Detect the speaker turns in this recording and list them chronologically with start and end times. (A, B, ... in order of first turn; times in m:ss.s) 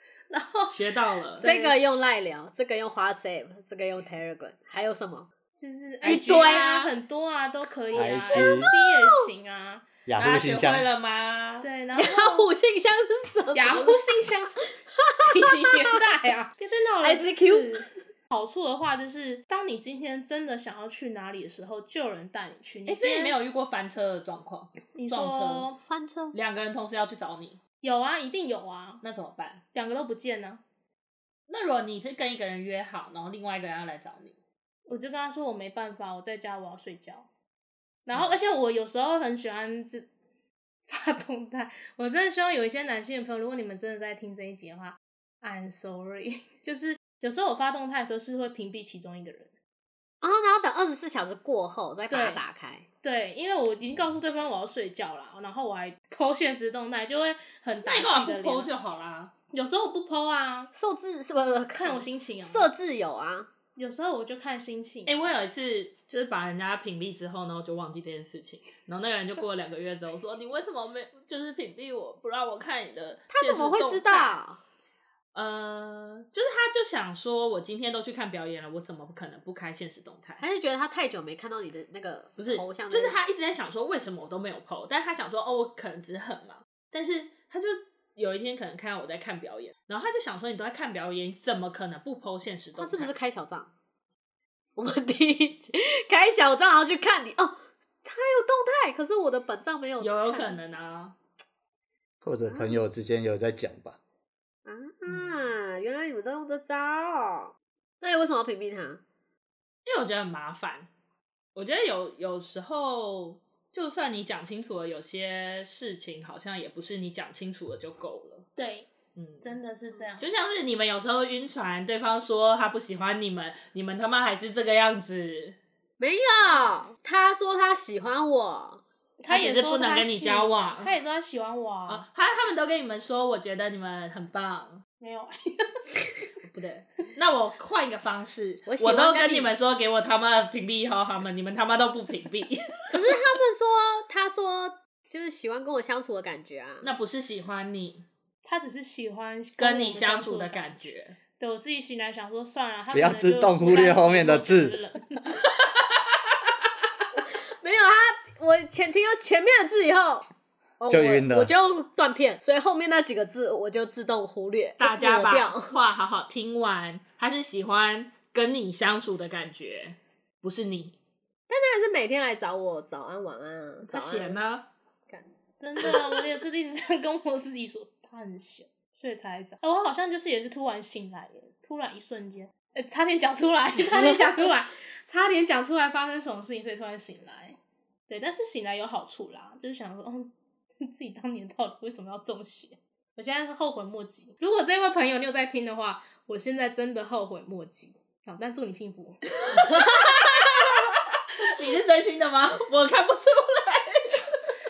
0:00.3-0:00.8 A
0:00.7-0:01.5 B
0:01.3-0:01.8 A
0:01.4-0:05.3 C
0:05.6-0:09.9 A
0:06.0-0:06.7 C
0:06.0-0:06.9 B
0:07.9-0:08.7 D
0:08.0-0:09.2 C
0:10.0-0:10.9 D
0:10.2-0:11.7 B
0:11.6-0:12.5 A
0:11.9-0:14.0 C
0:13.5-0:23.4 A
0:14.9-0:16.0 C
0:17.0-0:17.9 C
0:22.8-0:25.7 B
0:24.9-0:25.8 A
0:25.8-0:26.4 C
0:26.3-0:27.6 B
0:27.8-0:29.0 A
0:29.0-0:29.6 B
0:29.7-0:30.6 A
0:31.5-0:34.3 B
0:34.9-0:37.2 A
0:38.0-0:40.1 A
0:40.9-0:49.5 A
0:50.2-0:52.8 C
0:52.1-0:52.4 A
0:53.0-0:58.7 A
0:57.8-0:59.3 B
0:59.5-1:00.7 A
1:00.7-1:03.5 C
1:01.7-1:02.7 A
1:03.8-1:05.2 A
1:05.1-1:14.4 B
1:13.3-1:14.6 C
1:15.3-1:20.4 B
1:20.4-1:23.2 C
1:22.4-1:33.1 B
1:32.8-1:33.7 C
1:34.8-1:40.6 C
1:40.0-1:41.1 B
1:42.2-1:44.0 D
1:44.6-1:49.0 C
1:45.1-1:45.3 B
1:49.8-1:50.9 B
1:51.6-1:58.5 B
1:58.6-1:58.9 A
1:59.2-1:59.5 B
1:59.4-2:00.2 A
2:00.2-2:05.6 B
2:06.0-2:08.8 C
2:09.2-2:12.0 A
2:09.3-2:10.9 B
2:11.9-2:14.8 B
2:15.0-2:15.9 A
2:16.5-2:23.0 B
2:18.6-2:19.5 C
2:22.9-2:26.9 C
2:26.8-2:28.0 B
2:28.4-2:35.5 A
2:29.6-2:31.2 B
2:32.9-2:34.7 D
2:37.3-2:40.3 C
2:40.8-2:45.7 C
2:40.9-2:41.5 D
2:44.8-2:51.0 B
2:51.5-2:54.4 C
2:53.9-2:54.6 B
2:55.6-3:07.6 A
3:08.1-3:19.8 A
3:19.5-3:20.7 C
3:19.7-3:24.3 B